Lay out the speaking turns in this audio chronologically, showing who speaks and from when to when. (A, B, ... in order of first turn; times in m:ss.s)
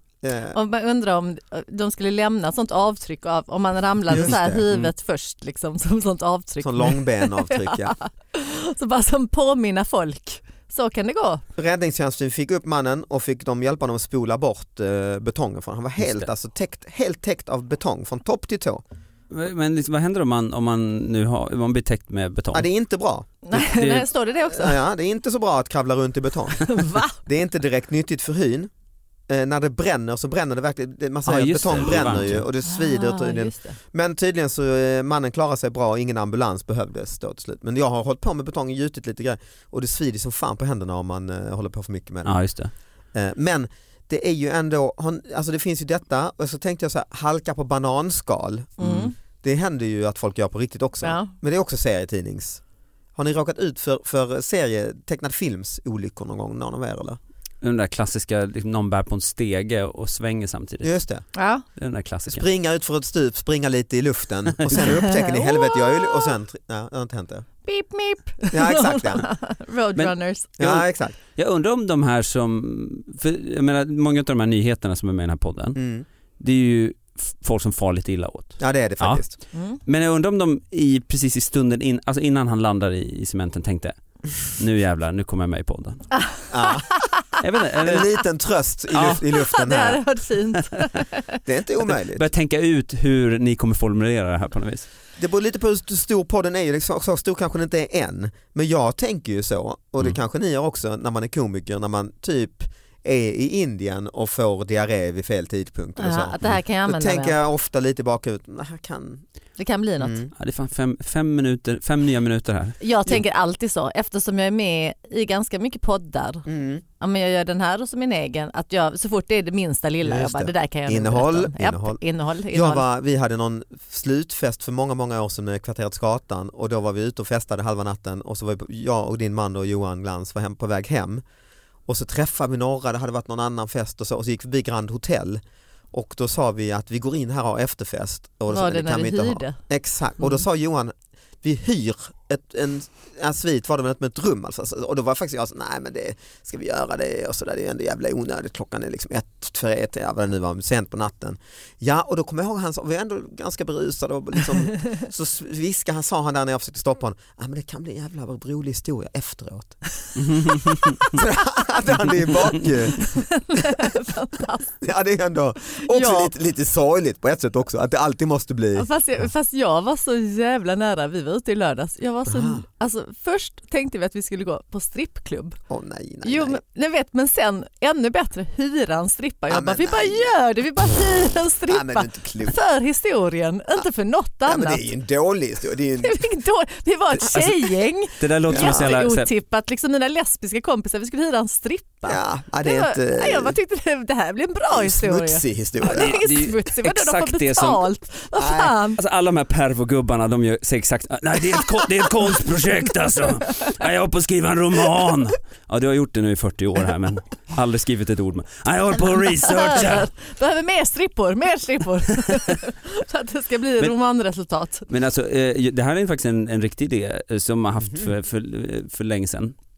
0:00.2-0:00.6 A
0:00.5-0:11.4 B
0:04.1-0:04.6 A
0:06.6-0:08.0 A
0:11.6-0:18.8 A
0:16.0-0:16.3 C
0:19.3-0:22.7 C
0:22.5-0:23.3 A
0:23.4-0:24.8 B
0:23.5-0:24.1 C
0:24.5-0:28.7 A
0:26.6-0:27.2 B
0:29.3-0:42.4 A
0:31.3-0:32.4 C
0:32.6-0:33.8 B
0:42.2-0:42.7 C
0:43.1-0:52.6 A
0:48.8-0:49.1 B
0:48.8-0:49.1 C
0:51.0-0:51.3 B
0:53.2-0:57.2 A
0:57.6-1:00.9 C
1:00.8-1:01.2 A
1:01.4-1:01.6 B
1:01.8-1:02.4 C
1:02.3-1:07.5 A
1:04.8-1:06.3 B
1:07.6-1:10.5 B
1:08.5-1:09.3 A
1:10.0-1:15.8 C
1:10.6-1:11.2 A
1:15.8-1:16.1 A
1:16.4-1:19.2 C
1:18.6-1:19.3 A
1:19.9-1:26.0 C
1:26.2-1:27.4 B
1:26.5-1:26.9 A
1:27.4-1:28.1 C
1:27.8-1:30.0 A
1:28.9-1:29.2 C
1:29.4-1:31.4 B
1:31.4-1:32.3 A
1:31.8-1:34.9 C
1:35.2-1:49.2 A
1:46.0-1:47.4 B
1:49.6-1:50.2 B
1:50.0-1:50.3 A
1:50.4-1:52.8 C
1:52.8-1:56.4 B
1:56.5-1:56.8 A
1:57.0-2:02.8 B
2:00.0-2:02.0 A
2:02.5-2:11.2 A
2:11.9-2:15.4 A
2:15.9-2:39.8 A
2:18.5-2:19.6 B
2:40.2-2:41.1 C
2:41.1-2:44.0 A
2:42.9-2:44.7 B
2:44.8-2:48.9 A
2:45.8-2:46.3 B
2:48.8-2:55.6 B
2:52.3-2:52.6 A
2:55.7-2:56.6 A
2:56.2-3:04.8 B
2:59.5-3:00.3 A
3:01.7-3:02.6 A
3:04.5-3:06.2 A
3:06.0-3:19.0 B
3:08.2-3:09.3 C
3:08.5-3:08.9 A
3:12.1-3:13.6 A
3:14.7-3:16.2 A
3:15.8-3:17.8 C
3:18.4-3:18.7 A
3:19.0-3:30.1 C
3:29.2-3:34.9 B
3:34.9-3:39.5 C